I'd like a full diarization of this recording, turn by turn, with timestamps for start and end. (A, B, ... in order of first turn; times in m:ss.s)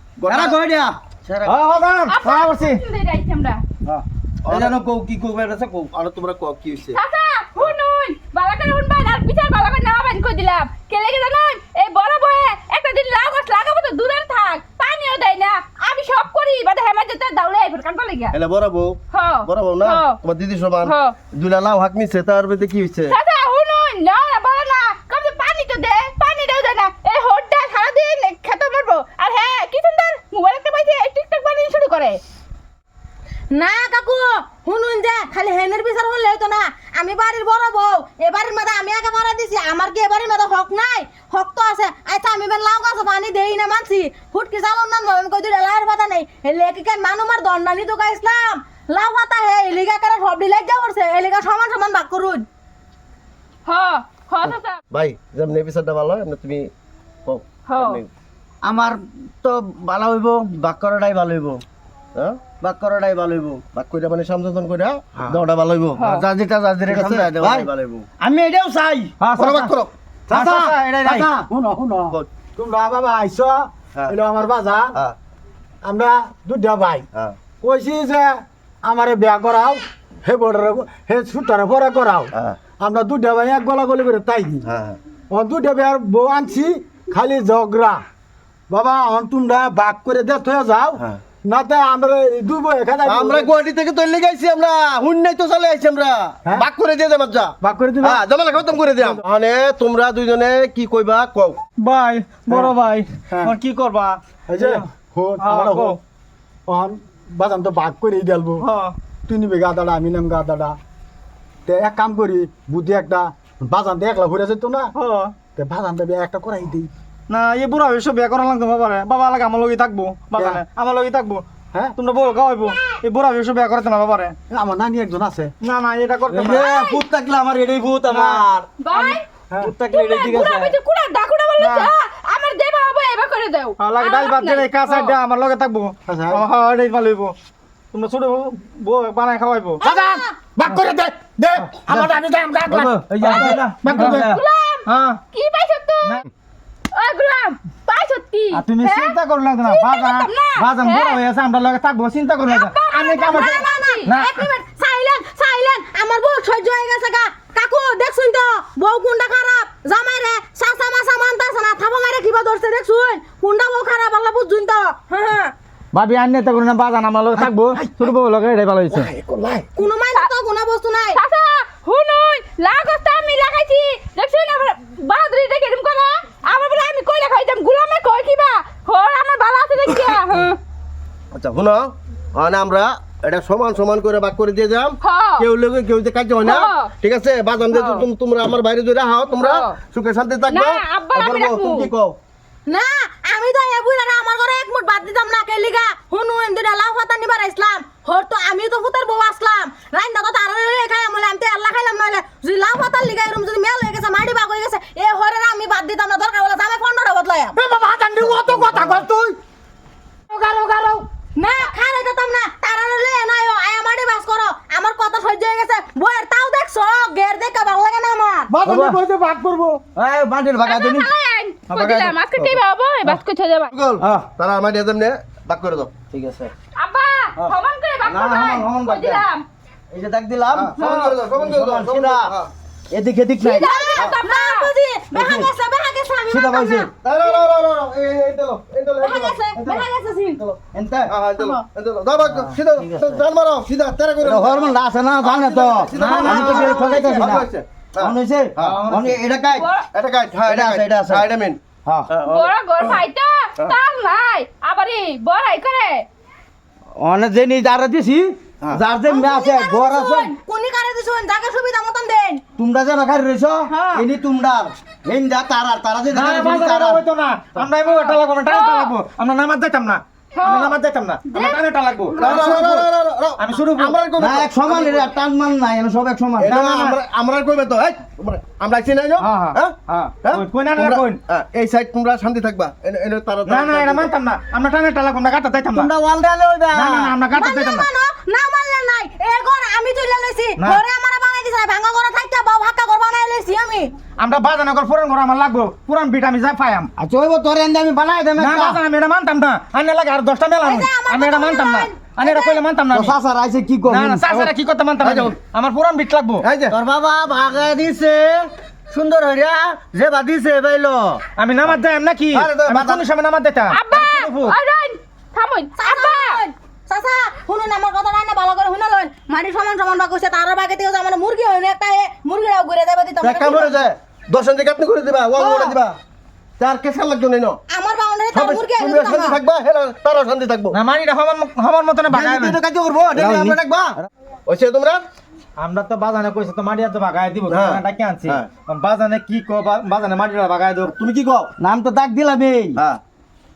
0:00.2-0:00.6 A
0:00.3-0:01.6 B
0:01.4-0:02.8 C
0:02.1-0:03.6 D
0:03.9-0:05.9 B
0:04.5-0:04.8 A
0:05.9-0:07.0 A
0:07.0-0:18.4 D
0:18.3-0:23.2 A
0:19.1-0:20.2 D
0:20.8-0:21.2 D
0:23.1-0:32.2 D
0:33.5-0:52.4 E
0:53.7-0:54.8 D
0:54.4-0:56.7 A
0:57.2-0:58.1 A
0:57.7-0:58.0 D
0:58.6-1:01.6 B
1:02.2-1:02.4 A
1:02.6-1:03.6 B
1:03.7-1:08.1 A
1:06.0-1:06.3 D
1:06.8-1:07.7 B
1:08.2-1:09.4 B
1:09.2-1:09.7 C
1:09.4-1:09.9 A
1:10.3-1:11.3 C
1:10.3-1:15.0 F
1:10.4-1:10.6 B
1:15.8-1:17.1 F
1:17.6-1:18.3 F
1:18.8-1:24.7 F
1:24.6-1:25.0 A
1:25.3-1:28.0 F
1:28.7-1:33.5 F
1:33.1-1:41.6 A
1:37.6-1:38.2 F
1:41.8-1:44.9 C
1:44.5-1:46.0 F
1:45.4-1:46.0 C
1:46.7-1:48.6 F
1:48.6-1:48.9 C
1:49.3-1:50.8 F
1:51.7-1:54.9 F
1:55.0-1:55.4 C
1:55.6-1:56.9 F
1:57.3-2:01.4 C
2:02.0-2:04.4 C
2:04.5-2:05.5 F
2:05.6-2:06.8 C
2:06.3-2:08.7 B
2:06.4-2:07.0 D
2:08.1-2:09.2 C
2:08.8-2:09.2 D
2:09.6-2:10.8 B
2:09.9-2:15.2 D
2:11.6-2:11.9 C
2:13.8-2:17.4 C
2:16.1-2:16.4 F
2:17.9-2:19.8 C
2:19.8-2:20.4 E
2:19.9-2:24.2 F
2:21.6-2:22.1 B
2:22.7-2:24.4 B
2:23.2-2:24.3 C
2:24.2-2:26.2 D
2:24.9-2:25.2 C
2:26.9-2:31.2 D
2:28.5-2:34.4 C
2:32.5-2:34.0 D
2:33.5-2:45.5 E
2:45.9-2:49.5 C
2:49.8-2:51.2 E
2:51.2-3:00.6 D
3:01.3-3:12.2 A
3:05.0-3:05.5 D
3:06.4-3:06.9 D
3:07.7-3:08.1 D
3:09.4-3:09.7 D
3:10.5-3:11.9 D
3:12.7-3:27.6 E
3:27.6-3:29.4 F
3:30.3-3:31.0 F
3:31.4-3:38.5 E
3:38.5-3:39.8 F
3:38.6-3:39.0 B
3:40.0-3:41.1 B
3:40.6-3:43.7 D
3:41.7-3:43.2 A
3:43.7-3:45.9 A
3:44.0-3:44.3 B
3:46.1-3:46.5 B
3:46.8-3:49.4 D
3:48.1-3:49.3 B
3:49.9-3:52.3 B
3:50.5-3:52.5 A
3:52.9-3:53.7 B
3:53.4-3:54.7 D
3:53.5-3:57.4 E
3:55.1-3:55.5 B
3:56.3-3:56.9 B
3:57.0-3:59.9 A
3:59.0-4:00.4 E
4:00.4-4:08.8 A
4:00.7-4:01.1 B
4:02.4-4:03.2 B
4:04.2-4:09.7 B
4:05.9-4:07.1 C
4:08.6-4:09.2 C
4:09.6-4:09.8 D
4:09.9-4:11.6 A
4:10.4-4:11.3 B
4:11.9-4:12.1 B
4:12.1-4:13.0 A
4:12.2-4:16.1 D
4:17.0-4:20.3 B
4:19.1-4:22.4 E
4:22.6-4:27.0 B
4:23.7-4:24.1 E
4:26.1-4:32.9 C
4:28.5-4:28.9 D
4:30.4-4:30.8 D
4:31.3-4:31.6 D
4:32.2-4:35.1 A
4:33.4-4:34.0 C
4:34.2-4:36.6 B
4:36.4-4:44.1 A
4:36.5-4:37.0 C
4:39.2-4:41.2 C
4:43.5-4:45.9 C
4:45.7-4:47.2 B
4:46.7-4:47.9 C
4:47.3-4:53.9 E
4:54.2-4:56.9 C
4:57.0-4:58.8 B
4:58.4-5:03.2 C
5:00.6-5:02.6 E
5:02.9-5:04.5 B
5:03.9-5:06.5 C
5:05.0-5:05.4 A
5:06.4-5:06.8 A
5:06.7-5:11.2 B
5:11.4-5:14.6 C
5:12.3-5:13.0 A
5:13.7-5:16.4 D
5:15.8-5:23.8 E
5:23.2-5:26.0 A
5:25.4-5:25.8 E
5:26.6-5:27.6 A
5:27.7-5:29.4 E
5:28.3-5:30.8 A
5:30.7-5:32.6 C
5:32.1-5:34.0 A
5:32.9-5:34.1 B
5:34.5-5:35.0 A
5:35.6-5:40.9 C
5:37.5-5:38.5 A
5:40.8-5:41.5 A
5:41.6-5:42.8 B